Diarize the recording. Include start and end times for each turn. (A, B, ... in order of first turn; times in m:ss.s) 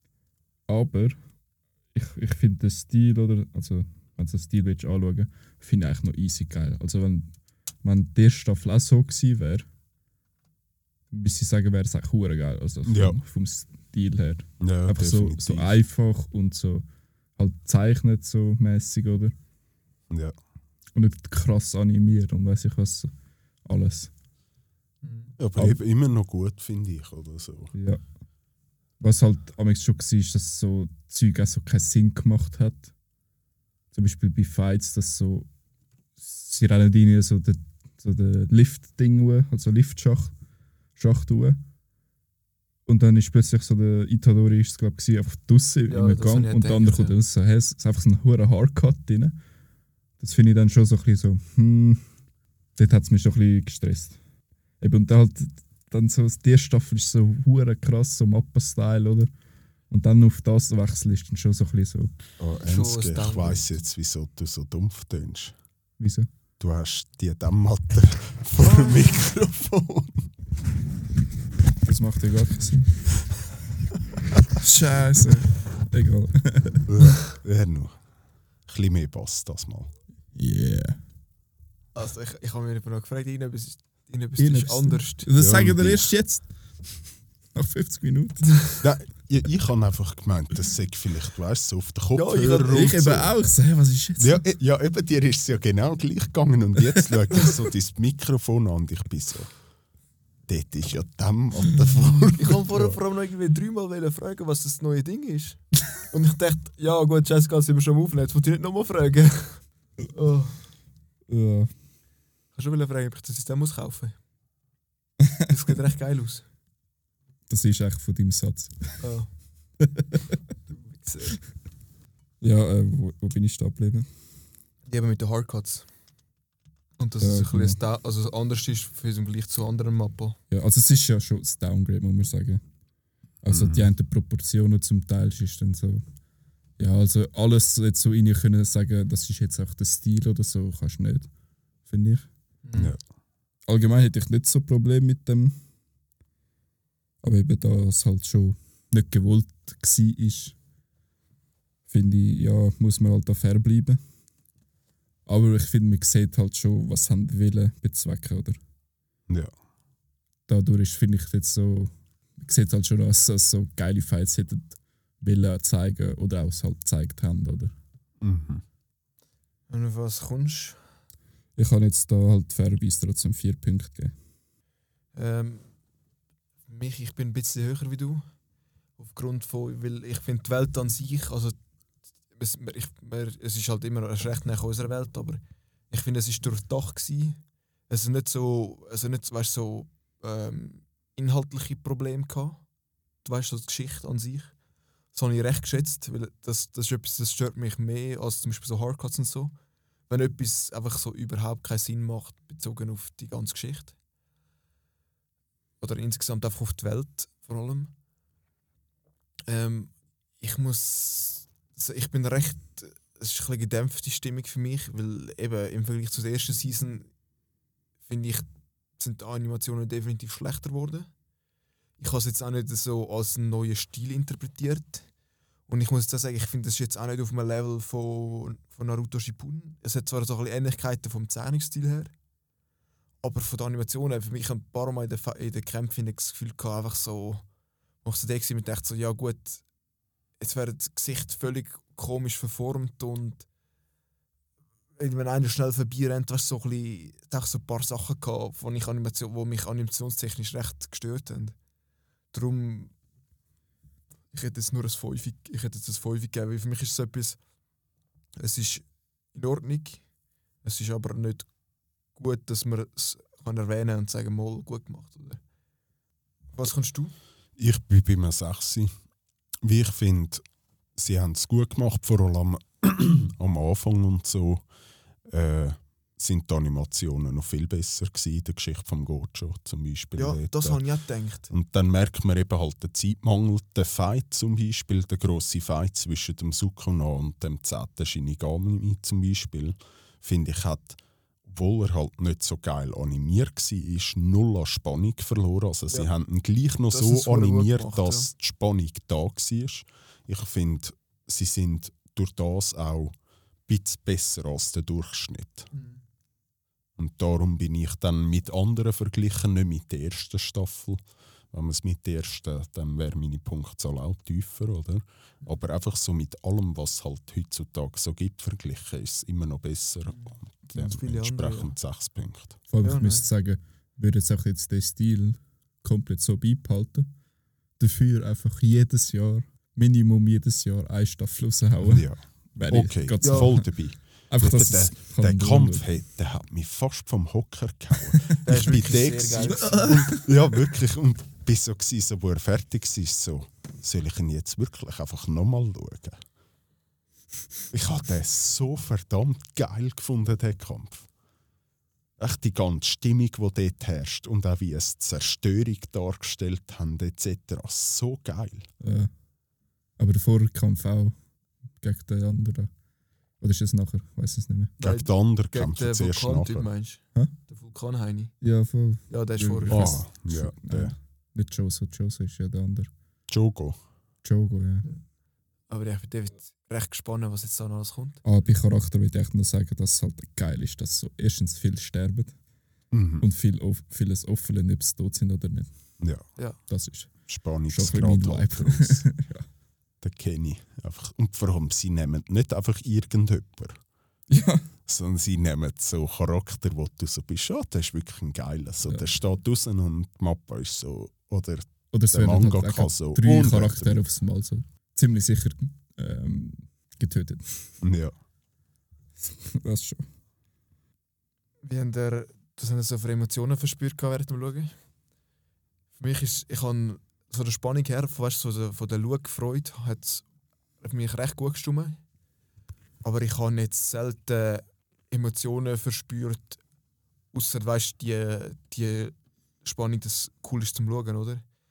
0:00.7-0:01.2 A
0:01.9-0:09.6 A
0:11.1-0:16.8 A
0:12.8-0:13.2 B
0:14.6-0:15.8 B
0:17.4-0:19.3 A
0:20.1-0:20.3 B
0:20.9-0:23.1 A
0:23.6-0:24.1 A
0:25.0-0:25.3 C
0:25.4-0:27.7 B
0:27.7-0:28.0 A
0:29.0-0:32.9 A
0:33.9-0:35.5 A
0:36.2-0:40.3 A
0:41.0-0:41.6 A
0:42.8-0:49.4 A
0:45.9-0:47.1 C
0:50.2-0:52.0 A
0:52.8-0:54.2 A
0:54.8-0:59.3 A
0:59.9-1:02.1 A
1:02.4-1:05.5 B
1:02.6-1:03.7 C
1:06.0-1:06.3 A
1:06.6-1:10.3 B
1:08.6-1:08.9 C
1:11.8-1:13.3 A
1:14.5-1:16.9 A
1:16.9-1:18.0 B
1:18.7-1:19.9 B
1:20.3-1:21.0 A
1:21.9-1:25.3 C
1:24.4-1:28.7 A
1:25.4-1:26.1 B
1:28.8-1:33.3 B
1:32.1-1:33.0 C
1:32.6-1:34.4 A
1:34.2-1:39.5 B
1:40.5-1:43.0 B
1:42.4-1:50.7 C
1:51.3-1:51.7 A
1:52.5-1:54.2 C
1:55.5-1:56.4 C
1:57.5-1:59.0 A
1:59.0-1:59.3 C
1:59.8-2:00.4 A
2:00.7-2:01.4 C
2:02.4-2:04.1 A
2:04.9-2:05.9 C
2:07.0-2:10.4 C
2:07.2-2:07.8 A
2:10.5-2:12.6 A
2:13.4-2:16.0 A
2:13.5-2:13.9 B
2:16.8-2:21.3 A
2:21.8-2:22.3 A
2:22.6-2:22.9 C
2:23.7-2:25.6 A
2:27.2-2:30.6 A
2:31.9-2:34.0 A
2:35.3-2:38.6 A
2:40.5-2:47.7 A
2:48.2-2:48.6 B
2:49.7-2:50.8 C
2:51.6-2:54.2 A
2:55.1-2:55.7 C
2:56.6-2:58.2 C
2:59.0-3:01.6 C
3:02.3-3:12.6 C
3:13.2-3:14.5 C
3:15.1-3:19.5 C
3:20.1-3:23.9 C
3:25.8-3:27.9 C
3:29.5-3:37.1 C
3:38.0-3:41.1 C
3:42.0-3:45.1 C
3:45.7-3:52.1 C
3:53.2-3:57.4 C
3:58.0-3:59.6 C
4:00.4-4:03.5 C
4:05.0-4:11.5 C
4:12.3-4:12.9 C
4:14.3-4:17.4 C
4:18.4-4:20.0 C
4:20.6-4:21.5 C
4:22.1-4:25.4 C
4:26.5-4:27.1 C
4:27.6-4:28.9 B
4:29.6-4:30.4 B
4:31.0-4:34.6 B
4:35.2-4:40.8 B
4:40.2-4:41.5 C
4:41.5-5:03.1 B
4:56.9-4:58.3 C
5:03.7-5:05.7 B
5:05.7-5:06.0 C
5:07.0-5:22.6 B
5:20.1-5:21.7 C
5:22.7-5:27.1 A
5:22.8-5:23.2 C
5:27.8-5:35.9 A
5:31.8-5:46.2 B
5:33.2-5:33.5 C
5:38.4-5:40.2 C
5:39.6-5:40.3 A
5:47.7-5:51.1 B
5:52.2-5:58.7 B
5:58.8-5:59.1 A
6:00.0-6:01.2 A
6:01.8-6:02.7 A
6:03.4-6:04.7 A
6:04.8-6:08.3 C
6:04.8-6:06.7 B
6:08.4-6:12.9 A
6:09.1-6:10.0 C
6:09.7-6:10.9 B
6:13.3-6:13.8 B
6:14.2-6:14.9 A
6:15.7-6:18.2 C
6:18.2-6:22.4 A
6:22.9-6:23.2 B
6:23.2-6:25.9 A
6:26.7-6:29.4 A
6:27.3-6:29.1 B
6:30.0-6:33.8 B
6:34.3-6:34.7 A
6:34.8-6:44.0 B
6:41.9-6:47.8 A
6:47.8-6:48.1 B
6:49.2-6:50.0 A
6:51.6-6:54.7 C
6:56.0-7:00.2 C
7:00.8-7:02.0 C
7:03.0-7:06.6 C
7:07.3-7:11.4 C